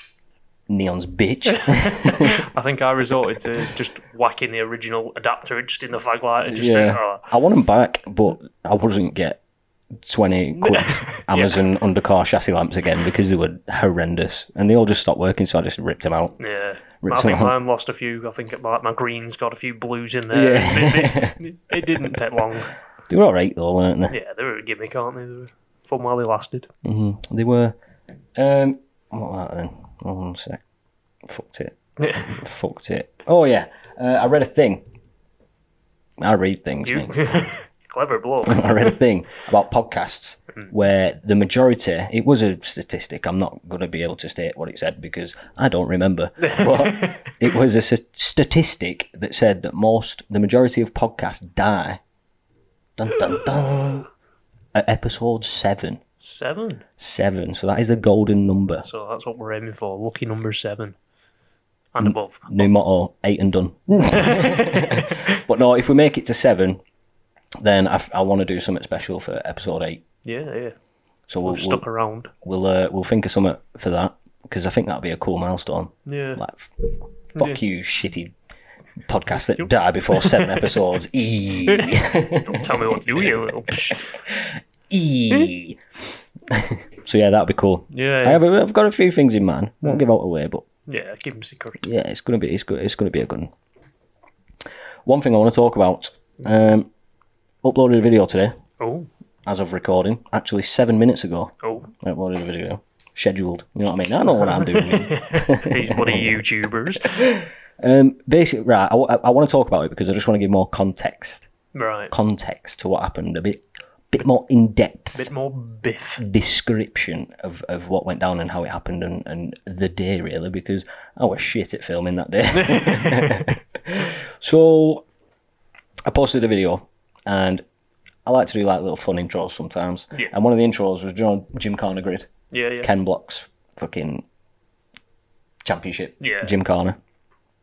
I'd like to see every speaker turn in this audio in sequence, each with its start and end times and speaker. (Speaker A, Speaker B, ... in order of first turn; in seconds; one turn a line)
Speaker A: 0.7-2.4
Speaker B: 1.5-7.3
Speaker A: 6.5-9.4
Speaker A: 10.0-16.4
Speaker B: 10.6-11.6
Speaker B: 16.4-22.7
Speaker A: 17.0-17.5
Speaker A: 20.3-21.4
Speaker A: 23.1-24.1
Speaker B: 24.1-26.7
Speaker A: 26.8-27.8
Speaker A: 28.4-30.6
Speaker A: 31.2-31.8
Speaker B: 32.0-32.4
Speaker A: 32.3-34.8
Speaker A: 36.2-37.3
Speaker B: 36.9-39.0
Speaker A: 38.5-52.0
Speaker B: 46.4-47.4
Speaker A: 53.0-54.1
Speaker A: 54.7-56.0
Speaker B: 56.2-56.8
Speaker A: 57.0-58.9
Speaker B: 58.8-61.0
Speaker B: 62.0-62.6
Speaker A: 62.0-66.8
Speaker B: 64.1-65.4
Speaker A: 67.6-70.0
Speaker B: 70.2-70.8
Speaker A: 71.3-71.8
Speaker B: 71.5-72.3
Speaker A: 72.4-76.7
Speaker B: 76.1-76.4
Speaker A: 77.3-78.3
Speaker A: 79.1-85.8
Speaker B: 79.6-80.8
Speaker B: 81.7-84.2
Speaker A: 86.5-90.7
Speaker B: 87.9-88.4
Speaker B: 90.9-91.9
Speaker A: 91.8-93.5
Speaker A: 95.1-96.9
Speaker A: 97.6-98.5
Speaker B: 98.8-99.1
Speaker A: 99.5-106.4
Speaker B: 101.6-101.9
Speaker B: 104.3-107.3
Speaker A: 107.0-111.5
Speaker B: 111.7-112.1
Speaker A: 112.1-115.3
Speaker B: 115.2-116.2
Speaker A: 116.2-125.0
Speaker B: 122.5-123.5
Speaker A: 126.1-127.6
Speaker A: 128.3-132.3
Speaker B: 132.5-132.9
Speaker A: 132.8-134.2
Speaker A: 135.6-137.0
Speaker B: 136.2-136.5